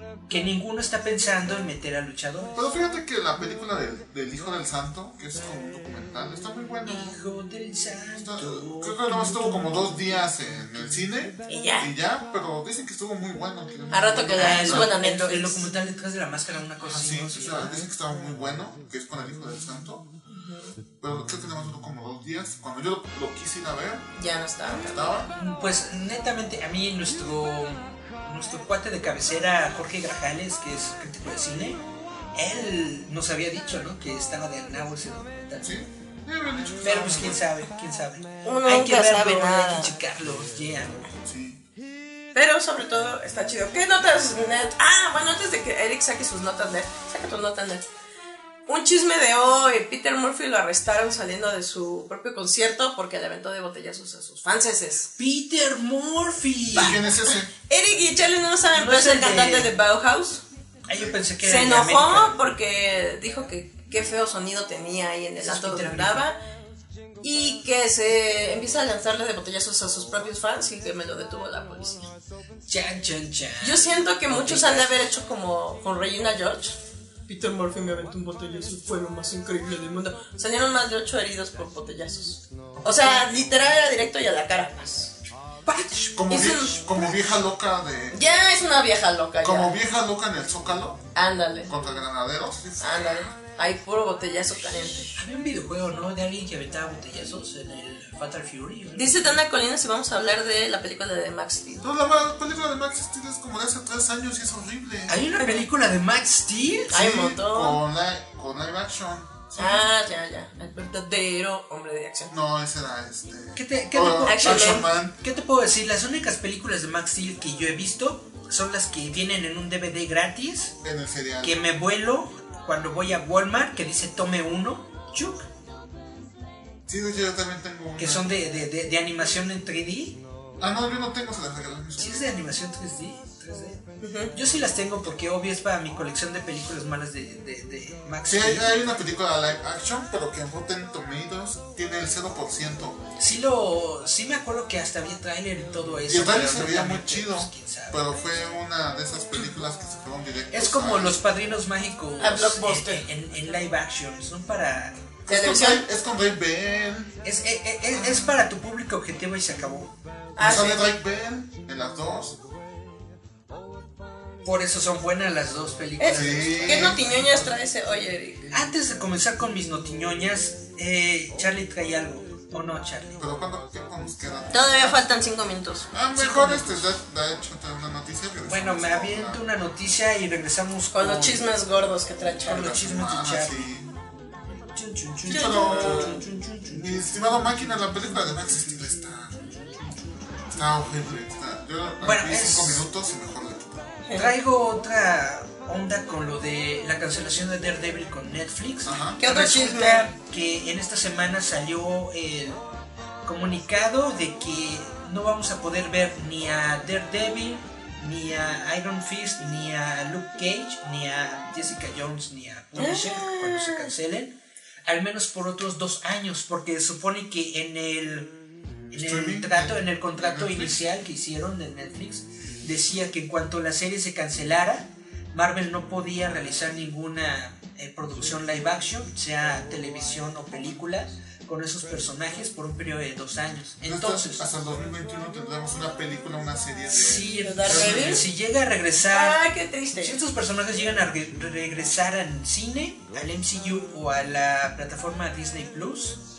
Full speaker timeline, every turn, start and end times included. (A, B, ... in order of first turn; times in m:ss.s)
0:00.3-0:02.6 A
0:02.6-0:07.2 B
0:06.9-0:11.1 A
0:08.2-0:15.0 B
0:11.5-0:11.9 C
0:13.9-0:15.7 C
0:14.4-0:17.9 A
0:16.8-0:20.1 B
0:20.3-0:20.7 C
0:21.0-0:24.1 B
0:24.2-0:25.2 C
0:24.7-0:25.3 B
0:25.4-0:31.8 A
0:32.4-0:35.7 A
0:35.6-0:37.4 B
0:36.8-0:41.0 A
0:38.4-0:39.9 C
0:41.2-0:41.6 B
0:42.3-0:47.8 C
0:48.7-0:55.1 C
0:55.2-0:57.0 A
0:56.7-0:57.5 B
0:56.8-1:00.4 C
0:58.7-0:59.7 A
1:00.9-1:02.4 A
1:01.4-1:06.4 C
1:05.4-1:06.3 A
1:07.2-1:12.1 C
1:12.7-1:15.0 A
1:13.6-1:25.1 C
1:22.8-1:23.4 B
1:25.7-1:27.0 A
1:26.1-1:28.2 B
1:26.3-1:27.0 C
1:28.1-1:29.8 C
1:29.4-1:31.0 B
1:31.2-1:31.7 C
1:31.7-1:33.3 B
1:32.8-1:35.1 C
1:35.1-1:39.4 A
1:39.0-1:41.9 C
1:41.8-1:45.2 B
1:45.1-1:46.9 A
1:46.9-1:49.9 B
1:46.9-1:47.8 C
1:49.6-1:52.3 C
1:52.3-1:55.2 B
1:53.6-2:00.8 A
1:54.2-1:54.9 C
2:00.8-2:01.6 B
2:01.4-2:05.5 A
2:06.9-2:08.4 B
2:08.0-2:10.2 A
2:10.6-2:12.3 B
2:12.0-2:18.9 A
2:14.0-2:14.3 C
2:18.3-2:23.0 B
2:23.2-2:28.0 A
2:26.1-2:31.2 B
2:30.5-2:35.1 A
2:32.2-2:33.0 C
2:35.3-2:37.2 B
2:35.3-2:35.8 C
2:37.2-2:39.9 A
2:40.4-2:40.9 C
2:40.4-2:42.4 B
2:44.4-2:47.5 A
2:46.0-2:48.5 C
2:46.0-2:47.3 B
2:48.5-2:53.2 A
2:53.2-2:55.1 B
2:54.5-2:55.9 C
2:55.9-2:59.4 B
2:56.2-2:56.9 A
2:58.5-3:01.4 A
3:00.9-3:02.7 C
3:02.4-3:03.9 B
3:02.4-3:03.7 A
3:04.7-3:10.2 A
3:05.2-3:09.4 B
3:05.3-3:06.2 C
3:10.5-3:13.9 B
3:12.0-3:12.9 A
3:14.1-3:14.3 C
3:14.1-3:22.6 A
3:18.8-3:19.2 B
3:19.2-3:20.1 C
3:23.2-3:38.3 A
3:32.8-3:33.9 C
3:38.9-3:54.5 A
3:38.9-3:40.8 B
3:53.8-3:58.3 B
3:56.9-3:59.4 A
3:57.4-3:58.3 C
3:59.0-4:00.2 C
4:00.0-4:06.2 A